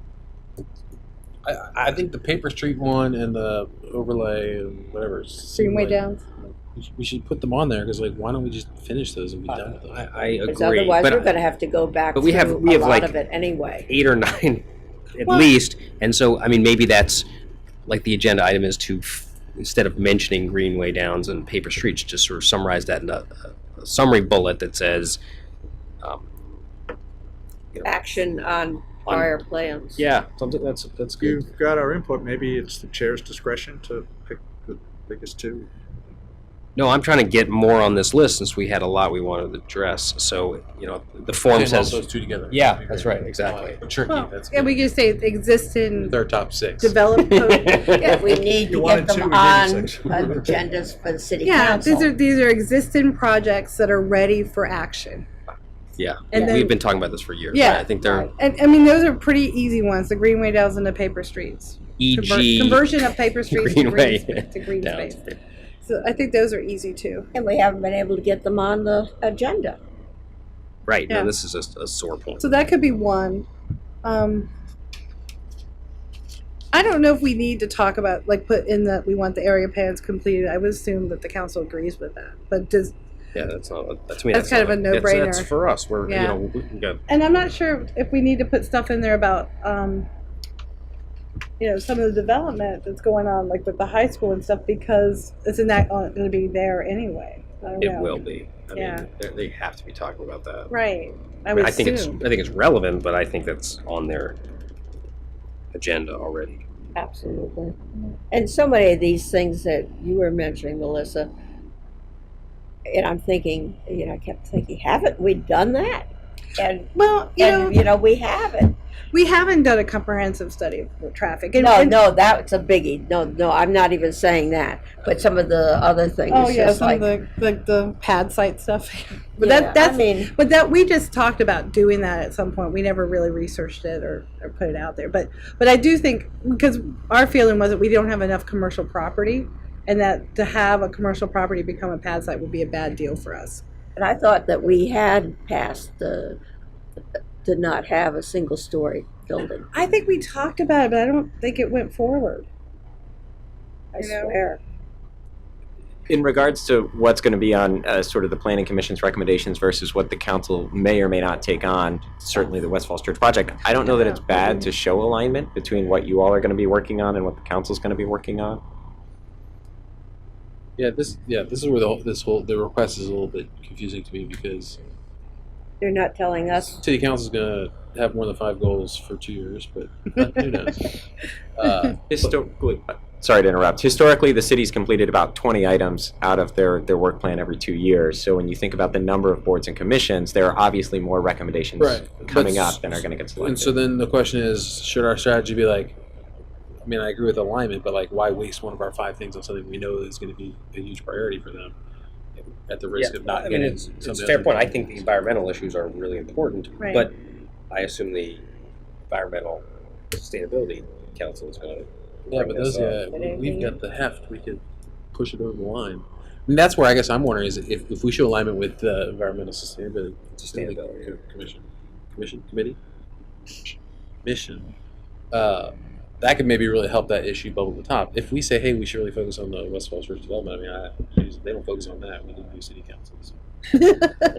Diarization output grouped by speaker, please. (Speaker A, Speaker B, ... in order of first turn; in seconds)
Speaker A: 1.4-6.0, 6.7-10.1, 41.5-44.9, 45.9-47.0, 170.8-174.8, 176.7-182.3, 191.8-196.0, 196.8-201.8, 202.7-204.7, 212.3-214.6, 215.1-222.8, 224.2-224.7, 225.3-233.4
Speaker B: 5.5-6.2, 44.1-46.2, 46.8-48.0, 51.4-55.2, 56.3-56.8, 57.5-65.2, 65.8-67.3, 72.4-73.5, 74.0-74.5, 76.7-83.0, 84.3-85.5, 86.1-86.4, 87.1-90.1, 91.6-98.2, 98.8-99.0, 100.7-102.2, 117.0-117.8, 119.1-122.0, 126.3-143.6, 149.7-152.5, 154.0-154.4, 206.8-207.1
Speaker C: 9.5-11.3, 12.1-13.2, 13.8-17.3, 17.9-25.2, 26.0-26.3, 29.1-29.3, 30.0-31.4, 36.8-43.8, 47.2-48.4, 56.0-58.3, 62.0-63.0, 63.5-65.4, 70.9-72.5, 83.3-87.0, 97.8-100.7, 101.5-104.4, 105.7-106.6, 203.0-207.2, 207.7-208.4, 209.1-213.0, 220.4-221.2
Speaker D: 10.5-13.9, 27.8-30.1, 47.9-52.1, 57.7-58.3, 67.3-69.8, 107.0-107.8, 108.3-111.3, 112.9-118.8, 121.6-127.1, 129.4-130.3, 144.0-146.4, 147.4-149.7, 153.9-154.6, 175.8-176.8, 213.1-213.8
Speaker E: 31.2-32.5, 34.3-35.6
Speaker F: 156.1-168.6, 182.1-193.7